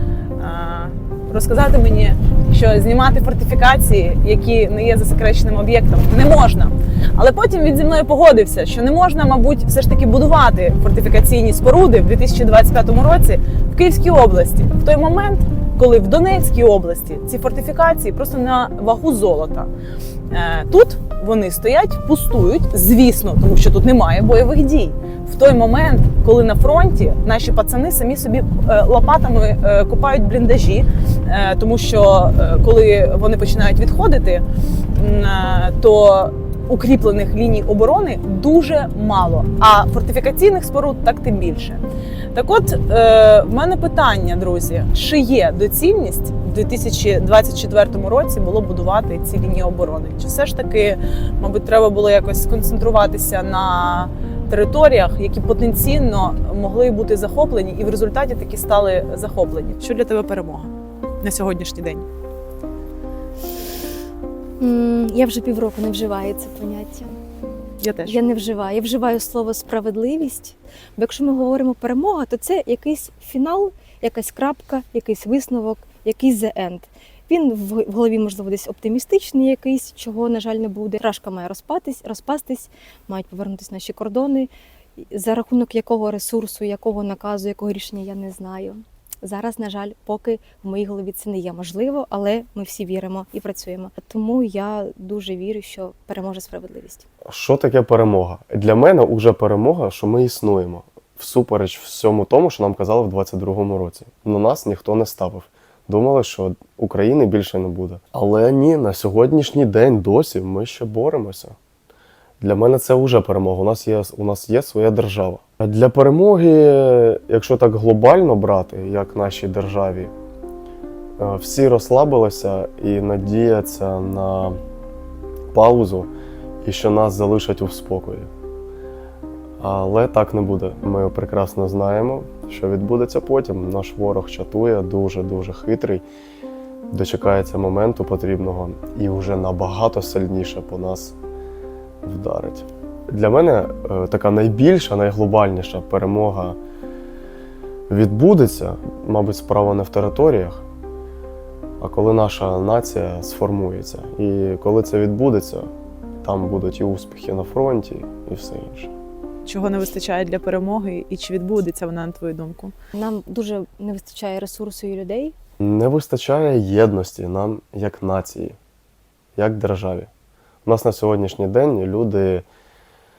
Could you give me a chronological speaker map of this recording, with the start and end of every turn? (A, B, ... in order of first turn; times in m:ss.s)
0:00.4-0:19.7 A
0:20.3-0:34.4 A
0:35.0-0:41.8 A
0:42.3-1:00.7 A
1:01.2-1:02.0 A
1:04.6-1:07.2 B
1:07.8-1:08.2 A
1:08.0-1:37.0 B
1:37.2-1:51.6 C
1:52.4-2:00.1 C
2:01.2-2:04.6 C
2:05.5-2:06.1 C
2:06.6-2:08.3 C
2:09.6-2:16.0 C
2:16.9-2:21.2 C
2:22.0-2:26.6 C
2:27.9-2:30.6 C
2:31.8-2:35.7 C
2:36.2-2:38.9 C
2:39.4-2:42.7 A
2:42.9-2:45.3 B
2:45.6-2:48.6 C
2:49.4-2:50.1 C
2:50.6-2:52.4 C